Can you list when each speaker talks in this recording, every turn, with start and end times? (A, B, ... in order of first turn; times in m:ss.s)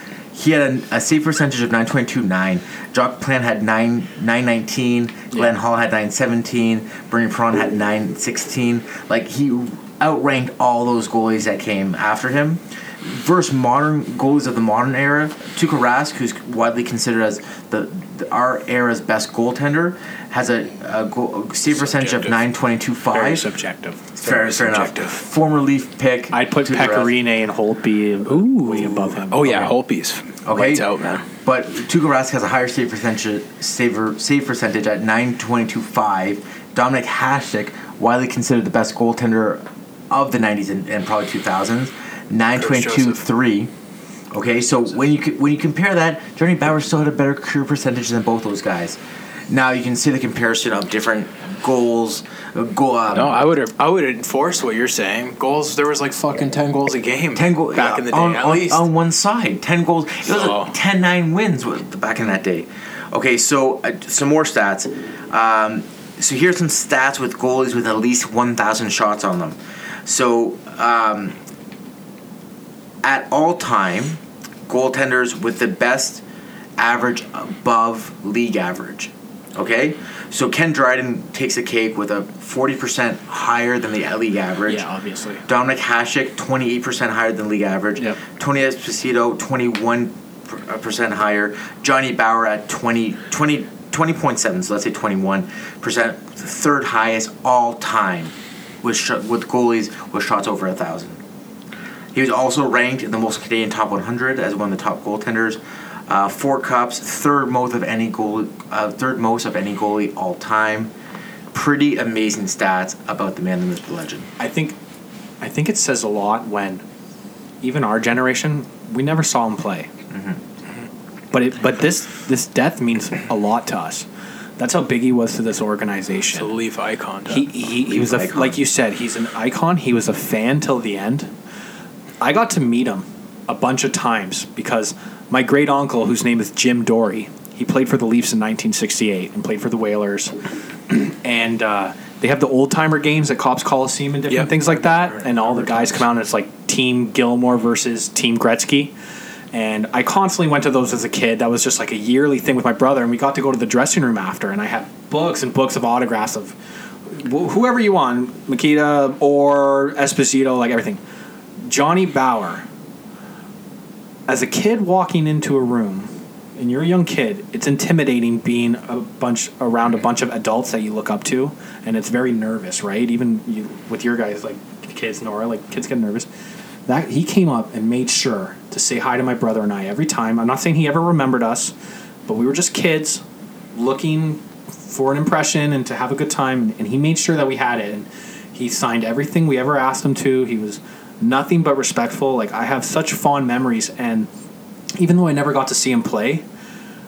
0:00.3-0:23.5 A
0:21.8-0:22.4 B
0:23.1-0:24.9 C
0:24.2-0:27.2 A
0:24.3-0:25.1 B
0:26.3-0:29.8 C
0:28.3-0:31.3 B
0:30.4-0:30.9 A
0:31.4-0:43.7 A
0:42.6-0:43.2 B
0:44.3-0:49.0 A
0:49.5-0:53.4 A
0:53.1-0:58.8 B
0:57.4-1:11.4 A
1:00.3-1:00.7 B
1:13.0-1:16.2 A
1:16.8-1:24.9 A
1:24.7-1:25.4 C
1:25.5-1:41.2 A
1:42.1-1:50.9 A
1:51.5-1:54.3 A
1:54.4-1:54.8 C
1:55.4-1:56.8 C
1:57.6-1:59.9 C
2:00.1-2:00.4 A
2:01.3-2:04.1 C
2:04.6-2:06.5 C
2:06.3-2:07.5 B
2:07.3-2:11.3 C
2:07.8-2:08.6 A
2:12.2-2:20.4 C
2:20.9-2:28.9 C
2:24.3-2:26.0 B
2:29.5-2:41.0 C
2:41.7-2:42.6 C
2:44.3-2:56.3 C
2:56.9-3:01.7 C
3:02.3-3:03.2 C
3:03.7-3:14.3 C
3:15.0-3:16.4 C